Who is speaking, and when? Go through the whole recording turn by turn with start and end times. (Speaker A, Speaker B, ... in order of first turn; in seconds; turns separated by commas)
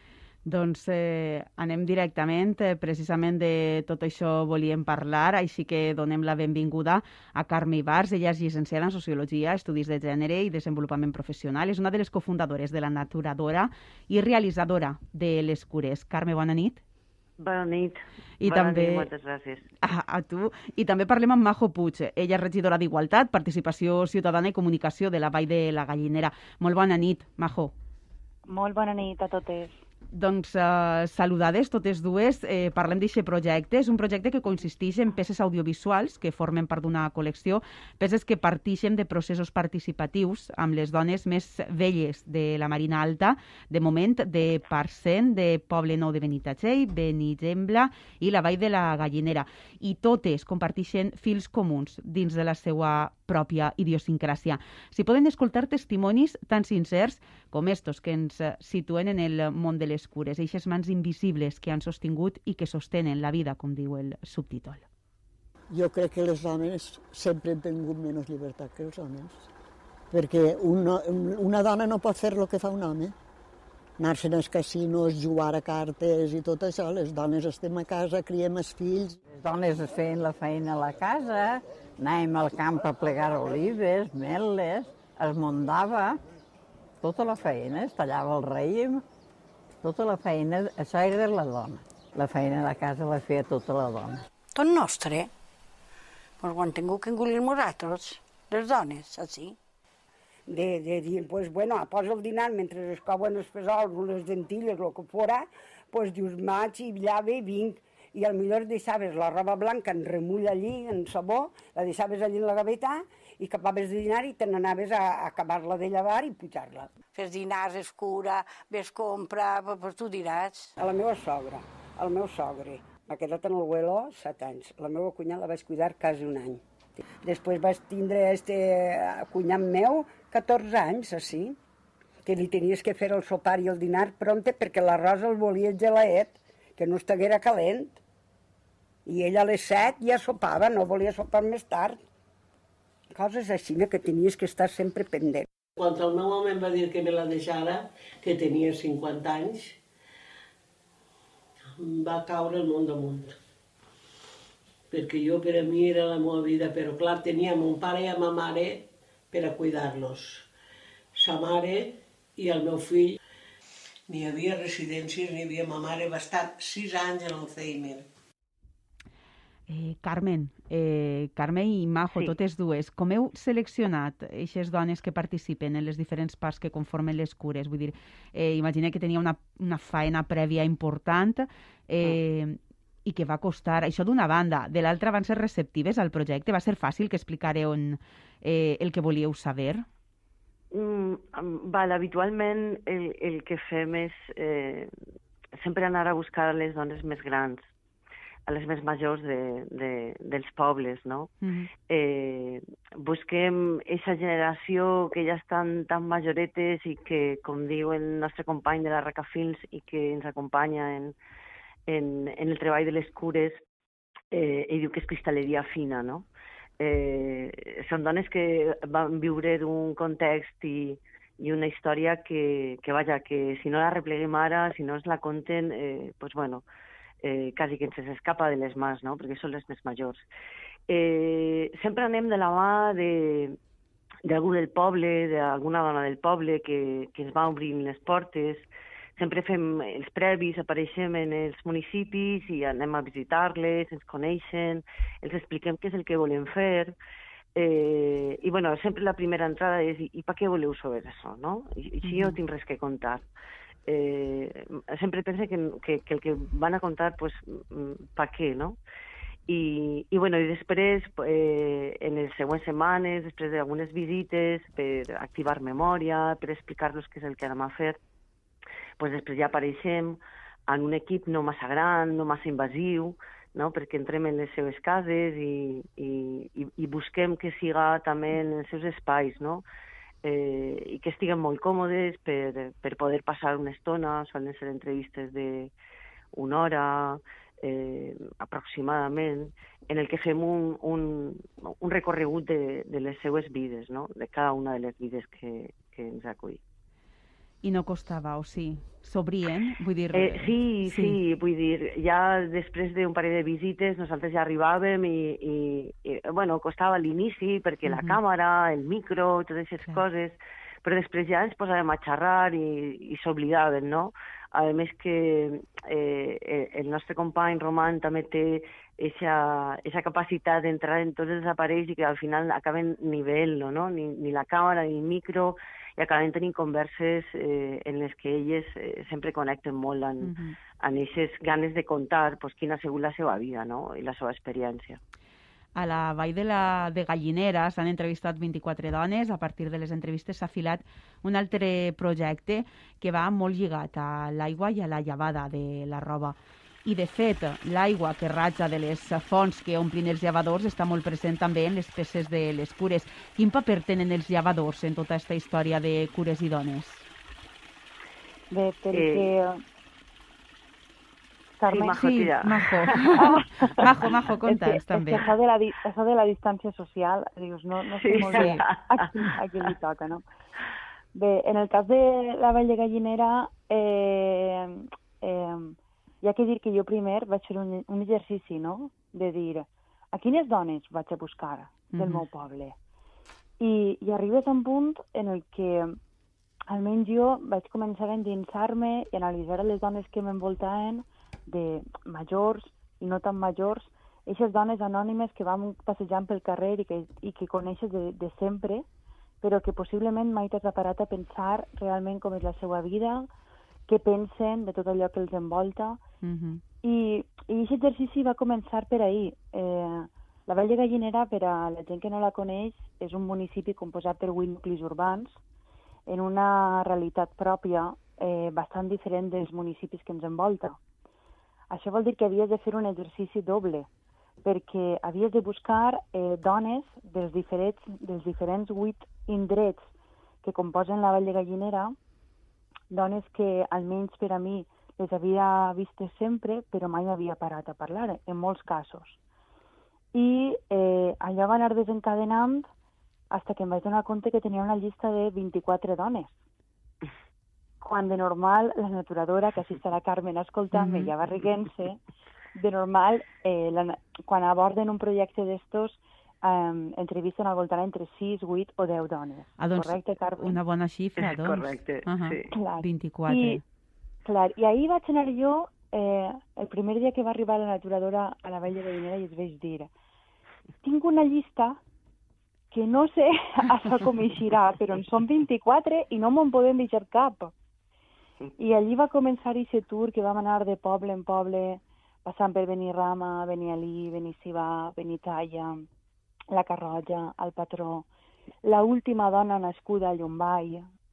Speaker A: 0.5-16.8, Speaker B: 17.4-19.6, Speaker A: 18.4-19.1, Speaker A: 19.8-27.7, Speaker C: 28.4-29.8, Speaker A: 30.1-64.8, Speaker D: 65.7-69.5, Speaker D: 70.1-73.1, Speaker D: 74.0-79.2, Speaker E: 79.2-86.2, Speaker E: 87.0-89.0, Speaker E: 89.8-94.2, Speaker F: 94.5-95.3, Speaker F: 96.4-99.6, Speaker G: 100.5-116.9, Speaker F: 117.1-120.7, Speaker G: 120.8-126.6, Speaker G: 127.2-131.6, Speaker G: 132.2-138.0, Speaker G: 139.1-142.0, Speaker G: 143.1-145.5, Speaker H: 145.8-149.8, Speaker H: 151.8-153.3, Speaker H: 154.9-160.5, Speaker H: 161.1-163.2, Speaker H: 164.1-168.0, Speaker A: 169.7-189.8, Speaker B: 190.7-194.9, Speaker B: 195.6-197.7, Speaker B: 198.5-201.3, Speaker A: 201.4-201.7, Speaker B: 201.9-211.2, Speaker B: 211.9-213.6, Speaker B: 214.3-216.3, Speaker B: 216.8-226.6, Speaker B: 227.2-230.2, Speaker B: 230.9-233.6, Speaker B: 234.2-238.7, Speaker B: 239.2-246.9, Speaker B: 247.6-253.2, Speaker A: 252.0-252.3, Speaker B: 253.9-258.8, Speaker B: 259.5-268.0, Speaker B: 269.0-279.6, Speaker B: 280.2-285.7, Speaker B: 286.3-296.6, Speaker A: 297.6-301.2, Speaker B: 300.1-335.0, Speaker A: 307.9-308.2, Speaker A: 330.2-330.6, Speaker A: 335.8-357.1, Speaker C: 358.5-359.6, Speaker B: 358.9-359.3, Speaker C: 361.6-362.0, Speaker B: 361.7-363.4, Speaker A: 361.9-365.2, Speaker C: 364.5-370.2, Speaker B: 368.0-368.9, Speaker A: 368.3-368.6, Speaker C: 371.1-382.8, Speaker A: 381.9-382.2, Speaker C: 383.6-386.0, Speaker C: 386.7-398.9, Speaker C: 399.4-403.3, Speaker C: 403.9-406.0, Speaker A: 406.2-406.6, Speaker C: 406.8-415.4, Speaker C: 416.1-420.8, Speaker C: 421.7-423.9, Speaker C: 424.4-429.9, Speaker C: 430.4-431.9, Speaker C: 432.9-439.2, Speaker C: 440.1-442.7, Speaker C: 443.3-446.3, Speaker C: 447.8-452.0, Speaker A: 450.7-451.1, Speaker C: 452.5-460.6, Speaker A: 459.6-463.6, Speaker B: 461.2-462.5, Speaker C: 462.5-463.6, Speaker C: 464.2-469.9, Speaker C: 470.8-471.8, Speaker C: 472.7-477.5, Speaker C: 478.6-485.8, Speaker C: 486.5-488.1, Speaker C: 488.6-490.9